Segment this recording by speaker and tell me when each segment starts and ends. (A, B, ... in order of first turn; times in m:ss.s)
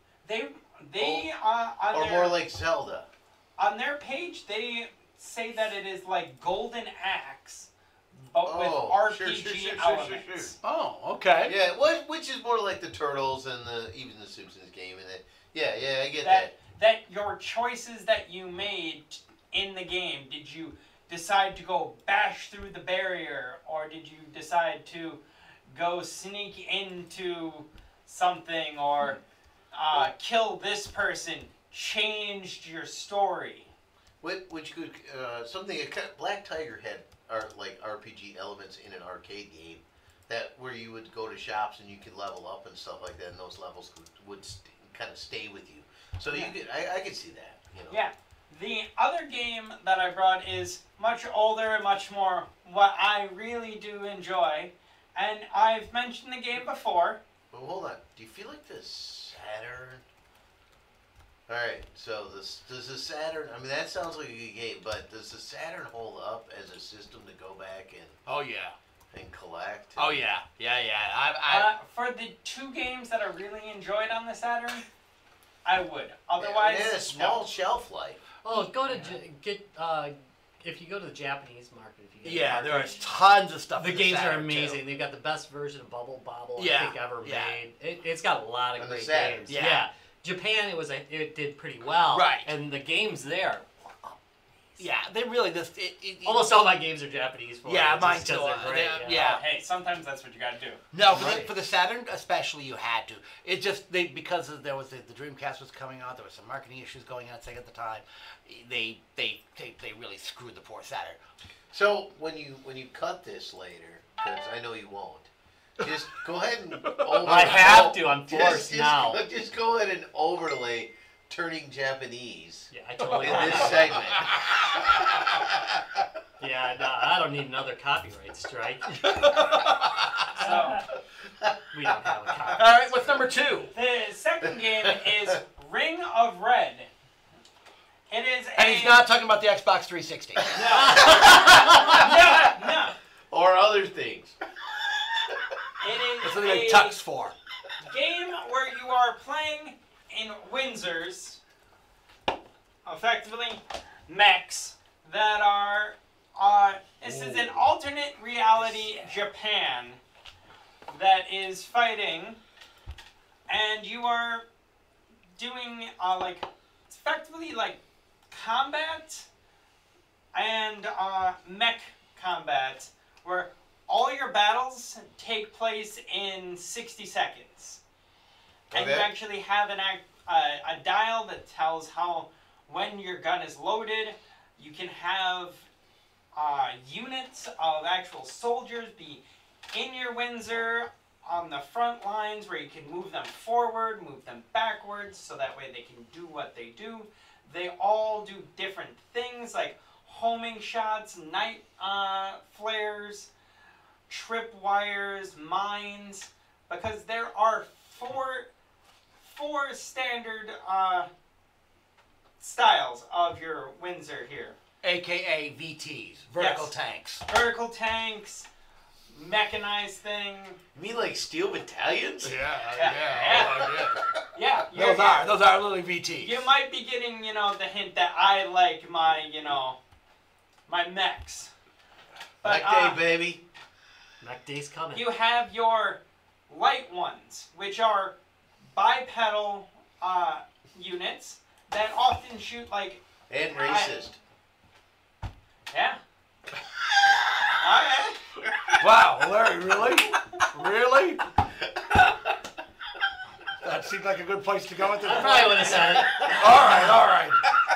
0:00.2-0:02.4 A
0:01.0-0:01.3 B
0:01.9-0:03.1 B
0:03.6-0:10.6 A
0:08.4-0:10.5 B
0:10.6-0:11.6 C
0:11.4-0:16.5 B
0:16.2-0:29.2 A
0:29.7-0:33.7 A
0:34.2-0:48.0 B
0:46.3-0:46.5 A
0:47.9-0:57.2 A
0:57.5-1:00.0 B
1:01.5-1:08.2 B
1:08.3-1:08.8 C
1:09.1-1:10.2 B
1:10.0-1:11.7 C
1:11.5-1:14.8 A
1:15.6-1:17.5 A
1:16.4-1:19.3 B
1:18.4-1:23.0 D
1:22.2-1:24.8 C
1:23.8-1:34.2 D
1:26.6-1:27.6 C
1:28.8-1:29.6 B
1:29.5-1:29.9 C
1:32.1-1:32.5 C
1:34.8-1:36.6 C
1:36.2-1:39.4 D
1:37.6-1:39.4 C
1:39.1-1:40.8 A
1:40.9-1:51.2 C
1:41.1-1:41.5 D
1:51.7-2:04.5 B
1:56.8-1:57.5 C
1:57.2-1:59.2 D
2:02.7-2:04.1 D
2:03.0-2:05.8 C
2:06.4-2:09.2 D
2:09.0-2:10.5 C
2:10.4-2:10.9 A
2:10.5-2:10.7 D
2:11.5-2:12.6 B
2:11.7-2:13.1 D
2:12.5-2:13.7 C
2:13.7-2:16.9 A
2:18.1-2:19.0 A
2:18.6-2:21.9 C
2:20.5-2:21.0 B
2:20.6-2:23.0 A
2:20.8-2:22.0 D
2:21.9-2:22.5 B
2:23.3-2:24.4 B
2:25.8-2:27.0 A
2:26.2-2:27.4 C
2:27.9-2:31.4 A
2:32.8-2:40.0 A
2:37.1-2:37.6 C
2:40.9-2:42.4 A
2:43.5-2:44.4 A
2:45.4-2:47.8 A
2:48.3-2:49.3 A
2:50.3-2:57.8 A
2:58.7-2:59.1 B
2:58.7-3:05.7 A
3:06.3-3:23.3 A
3:24.1-3:28.5 A
3:29.2-3:31.1 A
3:32.4-3:34.6 A
3:34.8-3:37.2 C
3:36.4-3:36.7 A
3:37.3-3:38.5 A
3:39.1-3:40.6 A
3:40.8-3:44.0 B
3:42.2-3:44.1 C
3:42.7-3:43.8 A
3:44.3-3:45.4 A
3:44.7-3:46.5 C
3:46.2-3:49.8 A
3:50.7-3:51.5 A
3:52.4-3:53.0 A
3:52.4-3:53.4 B
3:54.2-3:55.1 D
3:54.9-3:58.2 A
3:58.7-4:03.0 A
4:03.3-4:04.2 B
4:03.6-4:04.0 A
4:05.7-4:06.0 A
4:07.6-4:08.2 A
4:08.8-4:11.3 C
4:13.6-4:17.5 C
4:15.0-4:16.3 D
4:16.2-4:16.4 B